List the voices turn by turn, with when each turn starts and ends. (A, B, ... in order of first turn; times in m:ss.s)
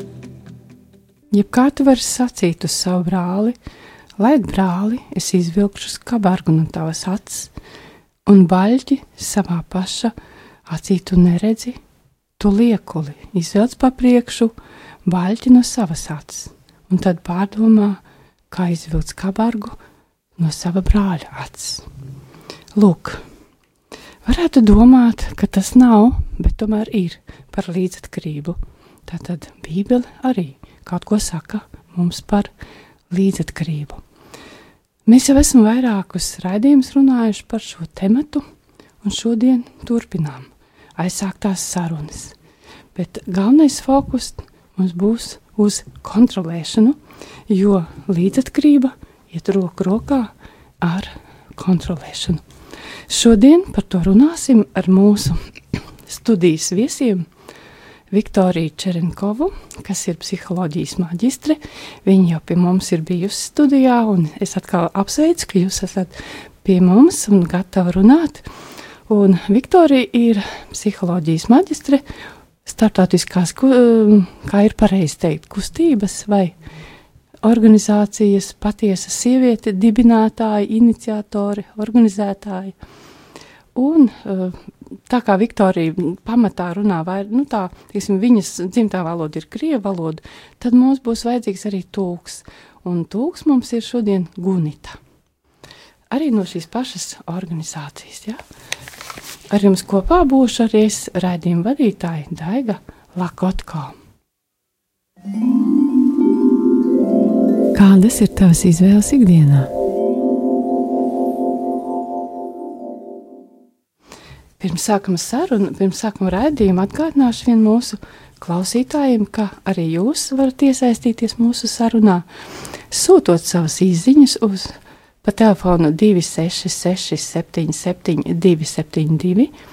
0:01.3-0:03.6 A
0:04.2-0:07.5 A
0:08.3-0:10.1 A
0:10.7-0:11.8 A
0:12.4-0:14.5 A
0:15.1-0:18.0 A
0:18.5-0:19.8 A
0:20.4-0:21.8 A
0:22.8-0:23.2 A
0:24.2-0:32.5 A
0:33.1-0:34.0 A
0:35.1-0:38.4 A
0:39.0-0:42.4 A
0:43.0-0:47.0 A
0:47.5-0:52.4 A
0:53.1-0:55.4 A
0:56.1-0:57.2 A
0:58.1-1:08.4 A
1:09.1-1:12.0 A
1:12.7-1:16.6 A
1:17.4-1:22.7 A
1:23.8-1:24.6 A
1:25.1-1:35.0 A
1:36.1-1:38.4 A
1:39.5-1:43.9 A
1:47.7-1:49.7 A
1:54.6-2:02.2 A
2:02.9-2:09.5 A